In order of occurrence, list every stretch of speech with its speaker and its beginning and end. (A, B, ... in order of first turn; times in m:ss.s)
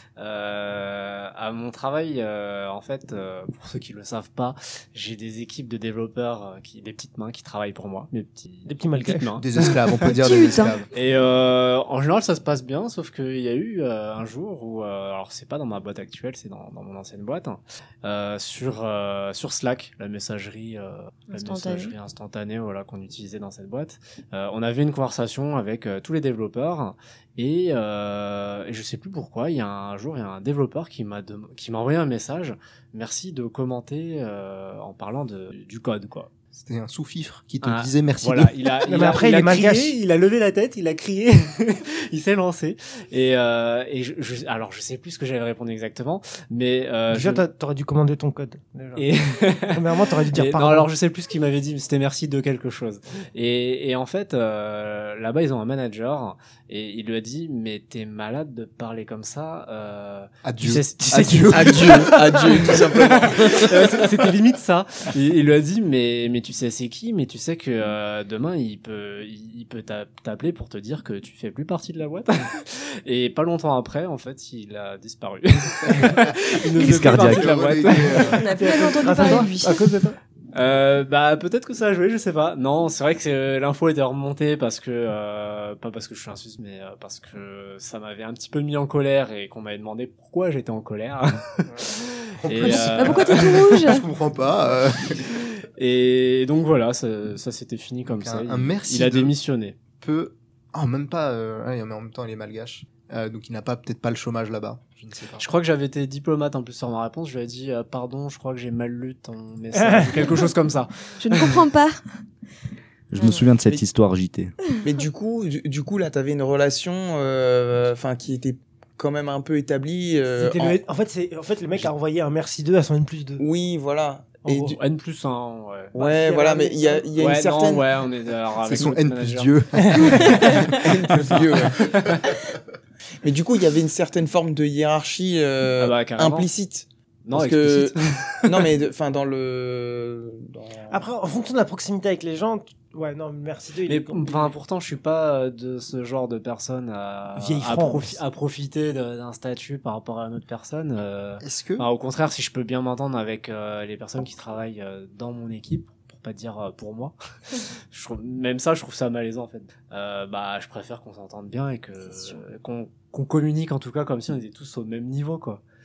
0:00.2-0:10.2 A
0:08.7-0:09.3 B
0:09.4-0:10.9 C
0:10.2-0:10.8 D
0:10.9-0:36.3 A
0:21.3-0:21.9 D
0:36.5-0:38.6 C
0:37.6-0:47.4 A
0:38.9-0:39.9 B
0:47.1-0:49.1 B
0:49.0-1:19.5 A
0:49.7-0:50.9 B
1:00.4-1:02.1 C
1:01.5-1:03.9 E
1:16.8-1:17.6 F
1:17.1-1:18.4 C
1:18.2-1:19.9 D
1:18.6-1:20.2 B
1:20.5-1:33.8 A
1:32.4-1:35.2 C
1:32.6-1:34.1 D
1:35.3-1:39.8 A
1:38.1-1:39.3 C
1:40.0-1:45.5 C
1:45.4-1:51.6 A
1:49.7-1:50.1 B
1:51.2-1:52.0 D
1:53.1-1:54.6 F
1:53.2-1:53.5 D
1:54.8-2:00.8 E
2:00.4-2:03.4 B
2:03.4-2:04.8 E
2:04.4-2:04.8 B
2:04.8-2:05.9 A
2:06.0-2:07.1 B
2:06.0-2:07.9 E
2:07.2-2:09.6 A
2:08.6-2:10.8 C
2:09.8-2:10.2 B
2:10.0-2:10.8 D
2:10.7-2:11.8 E
2:11.8-2:12.2 A
2:13.2-2:21.0 E
2:15.8-2:16.5 A
2:17.3-2:18.7 A
2:20.9-2:24.5 B
2:23.9-2:37.2 A
2:27.4-2:28.2 B
2:31.4-2:31.9 C
2:37.9-2:45.6 A
2:42.1-2:42.4 D